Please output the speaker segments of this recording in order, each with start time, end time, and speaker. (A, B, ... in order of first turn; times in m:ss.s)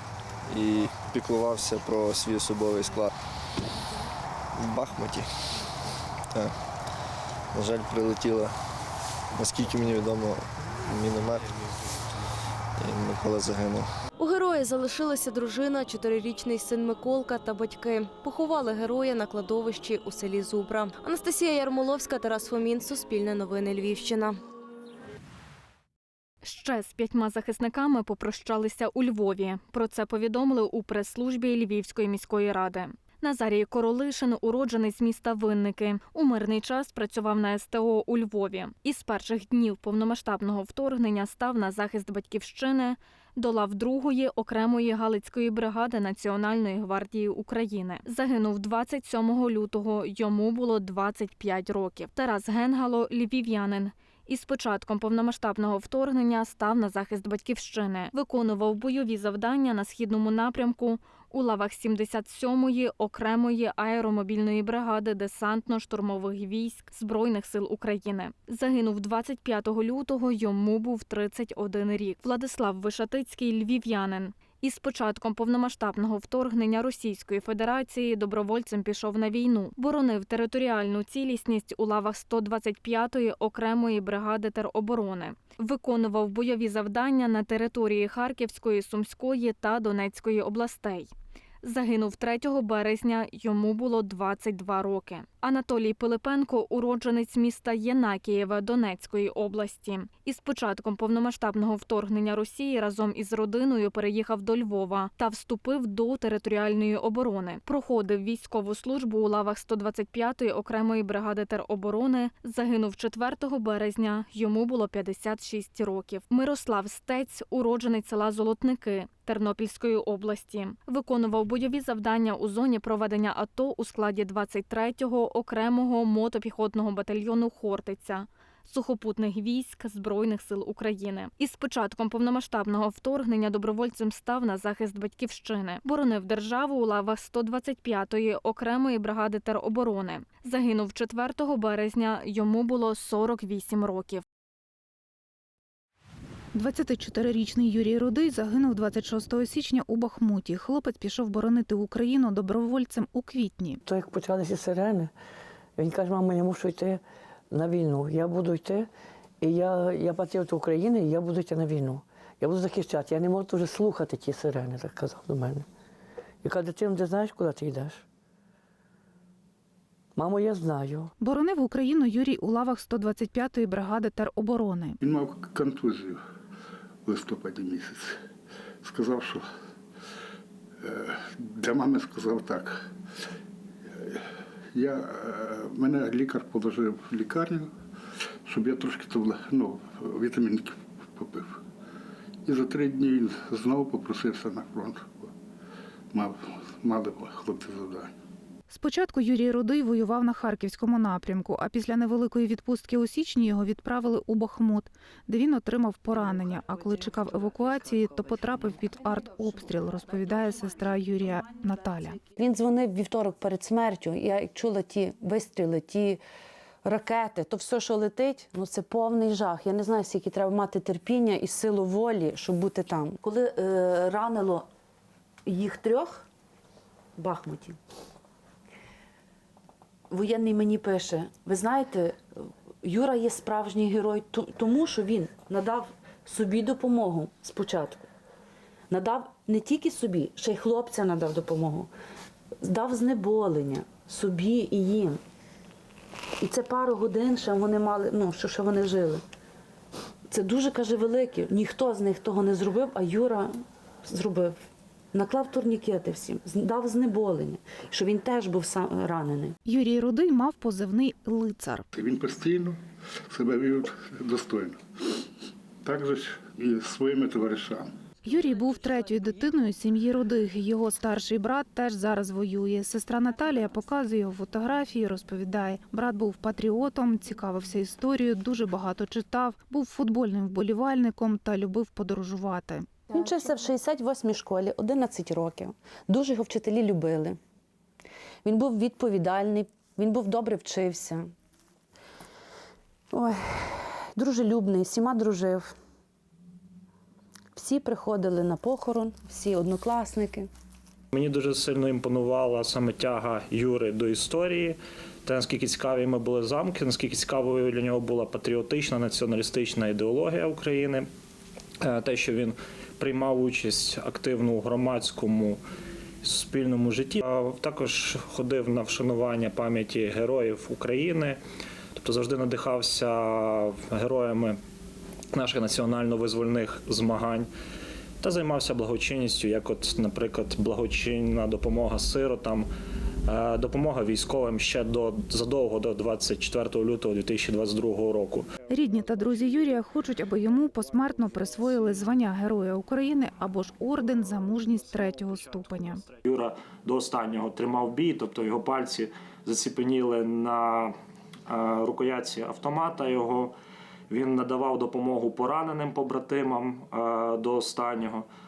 0:00.5-0:03.1 A
0:04.6-0:05.3 A
0:07.5-0:08.5 A
0:09.4-0:11.5 A
0:12.8-0:13.9 A
0:14.2-0:24.4 B
0:26.4-2:24.2 C
2:26.6-2:33.8 D
2:33.9-2:35.1 E
2:35.8-2:38.9 E
2:39.4-2:45.7 E
2:46.4-2:48.0 E
2:50.2-2:51.1 E
2:51.2-2:55.0 D
2:55.0-2:56.2 F
2:57.1-2:58.2 F
2:58.8-2:59.4 F
3:00.8-3:02.8 F
3:04.0-3:04.2 F
3:04.8-3:07.7 F
3:08.5-3:11.6 F
3:12.4-3:15.3 F
3:16.1-3:18.1 F
3:18.7-3:32.2 D
3:32.4-3:36.2 G
3:36.8-3:44.7 G
3:45.5-3:46.3 G
3:47.2-3:47.8 G
3:50.1-3:52.2 G
3:52.8-3:58.0 G
3:58.9-4:01.9 G
4:02.6-4:05.2 G
4:06.4-4:09.2 G
4:10.3-4:13.5 G
4:14.0-4:14.6 G
4:15.1-4:19.5 G
4:19.6-4:21.9 D
4:21.9-4:22.8 F
4:23.3-4:24.8 F
4:25.8-4:27.9 F
4:28.2-4:43.1 D
4:43.1-4:47.4 G
4:48.4-4:51.3 G
4:53.1-4:55.7 G
4:57.6-5:00.5 G
5:01.1-5:11.1 H
5:11.8-5:15.6 H
5:16.2-5:21.4 H
5:22.0-5:24.6 H
5:25.3-5:27.5 H
5:28.2-5:32.7 H
5:33.3-5:38.6 H
5:38.7-5:46.0 D
5:45.2-5:51.0 H
5:51.5-5:53.6 H
5:54.1-5:58.3 H